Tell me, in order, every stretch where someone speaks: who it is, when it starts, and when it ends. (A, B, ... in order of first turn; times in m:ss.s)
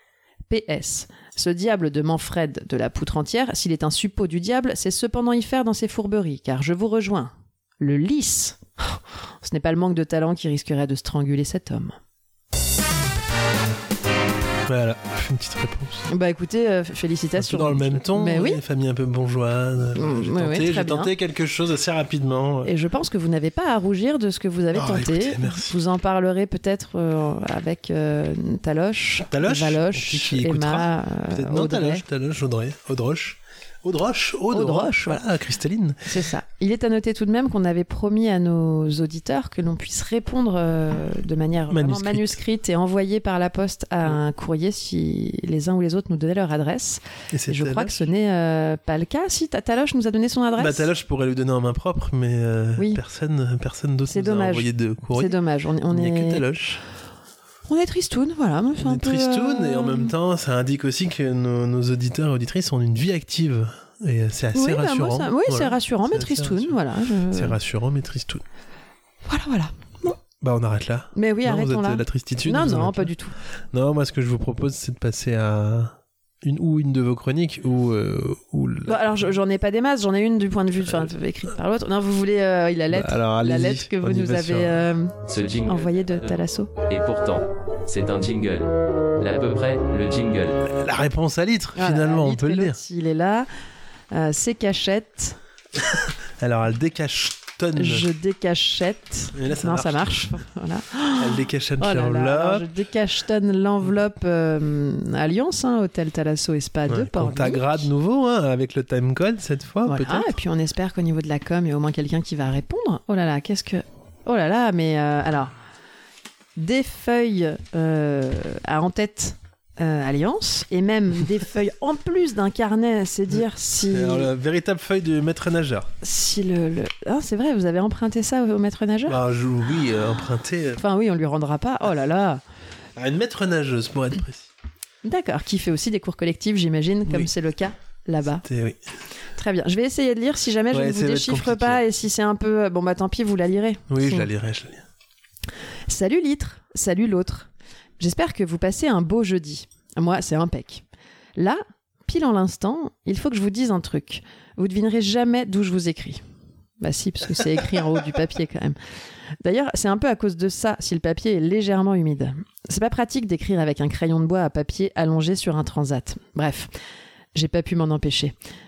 0:00.5-0:12.0 A
0:14.7-0:16.1 B
0:16.1-0:18.6 A
0:17.4-0:22.7 B
0:19.9-0:21.1 A
0:22.6-0:32.0 A
0:24.7-0:25.7 B
0:29.3-0:36.0 B
0:34.5-0:35.2 A
0:36.0-0:50.9 A
0:41.7-0:42.4 B
0:47.3-0:48.0 B
0:50.6-0:55.4 B
0:54.1-0:56.4 A
0:55.9-0:56.8 B
0:57.7-1:00.1 A
0:58.8-1:06.8 B
1:04.5-1:07.6 A
1:07.3-1:08.4 B
1:09.2-1:10.2 A
1:10.2-1:13.1 B
1:11.1-1:13.3 A
1:13.7-1:19.0 B
1:18.8-1:26.7 A
1:22.9-1:24.8 B
1:25.2-1:26.3 C
1:26.8-1:30.6 C
1:30.6-1:32.8 B
1:31.7-1:33.5 A
1:34.1-1:35.4 A
1:35.9-1:38.1 B
1:37.8-1:47.8 A
1:39.3-1:40.3 B
1:41.2-1:42.6 B
1:46.9-1:50.4 B
1:49.8-1:55.5 A
1:56.6-2:04.3 A
2:03.9-2:05.9 B
2:06.0-2:09.2 A
2:09.1-2:10.8 B
2:10.8-2:12.4 A
2:13.0-2:14.5 B
2:15.0-2:18.4 A
2:18.4-2:18.8 B
2:19.4-2:24.3 A
2:20.7-2:21.8 B
2:23.9-2:24.8 B
2:25.9-2:30.8 A
2:31.4-2:36.2 A
2:36.8-2:38.8 A
2:39.4-2:46.7 A
2:47.3-2:48.3 A